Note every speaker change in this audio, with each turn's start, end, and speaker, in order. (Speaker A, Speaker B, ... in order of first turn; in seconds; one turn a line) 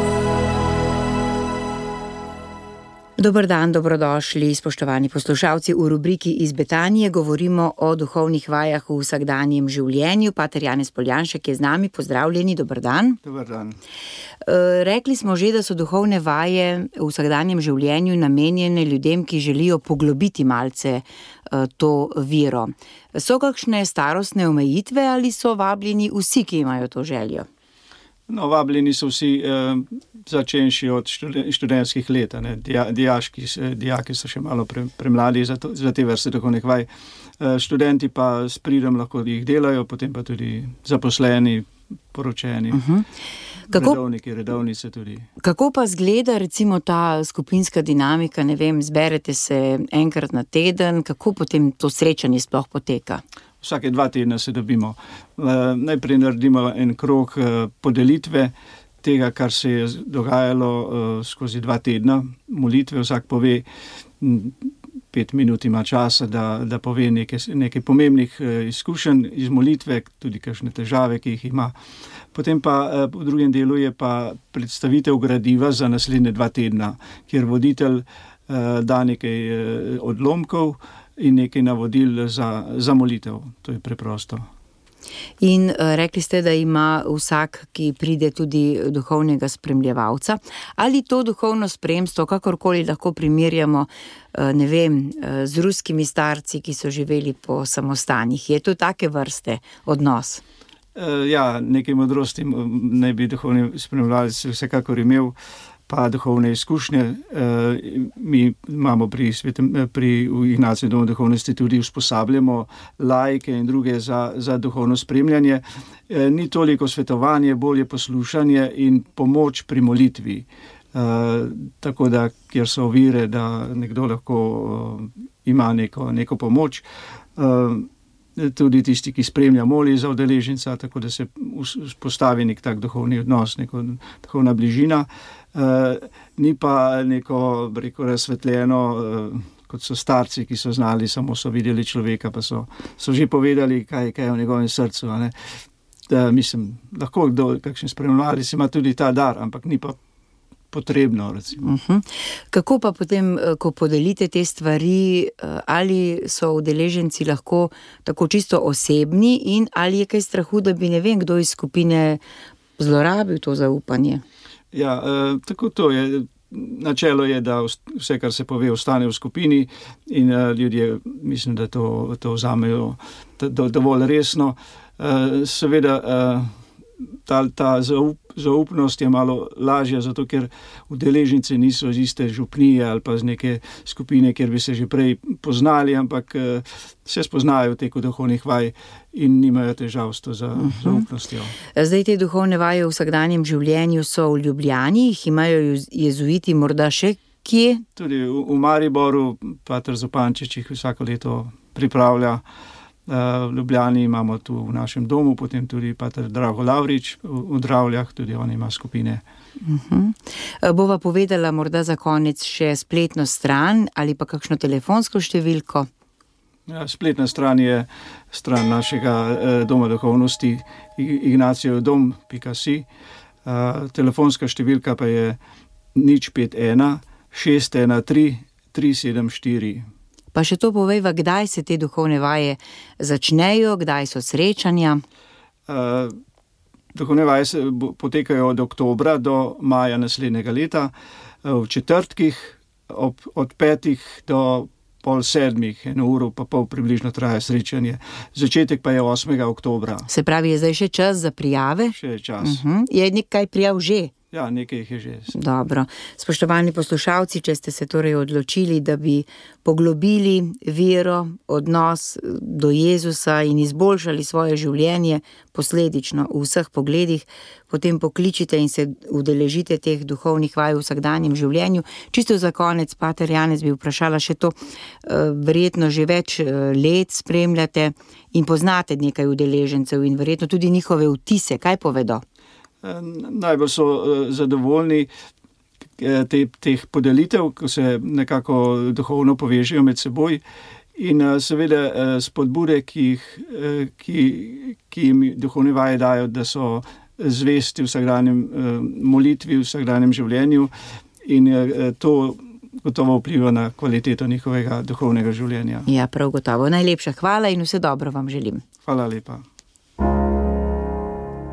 Speaker A: 3.2-13.2
Speaker B: 13.2-13.8
Speaker A: 14.4-27.5
Speaker B: 28.3-36.9
Speaker B: 37.4-42.8
Speaker A: 42.7-43.1
Speaker A: 43.7-44.0
Speaker B: 43.7-45.3
Speaker A: 45.4-53.2
Speaker B: 53.6-63.6
Speaker B: 64.2-71.7
Speaker B: 72.3-84.4
Speaker A: 85.4-100.4
Speaker B: 100.9-105.3
Speaker B: 105.9-126.8
Speaker B: 127.3-145.3
Speaker B: 146.1-150.0
Speaker B: 150.7-151.7
Speaker A: 151.6-162.2
Speaker A: 162.8-164.2
Speaker B: 164.7-176.5
Speaker B: 177.3-191.5
Speaker A: 190.7-191.0
Speaker A: 191.7-197.8
Speaker B: 197.9-202.4
Speaker B: 203.1-209.2
Speaker A: 209.6-215.9
Speaker B: 216.7-222.8
Speaker B: 223.4-225.4
Speaker B: 225.9-229.8
Speaker A: 230.3-235.0
Speaker B: 235.7-236.1
Speaker B: 236.9-240.9
Speaker B: 241.4-250.1
Speaker A: 250.1-254.1
Speaker B: 251.9-252.6
Speaker B: 254.3-255.3
Speaker A: 255.3-282.2
Speaker B: 282.8-285.1
Speaker B: 286.0-290.4
Speaker B: 290.9-300.7
Speaker B: 301.2-305.9
Speaker A: 305.9-308.6
Speaker B: 308.8-309.4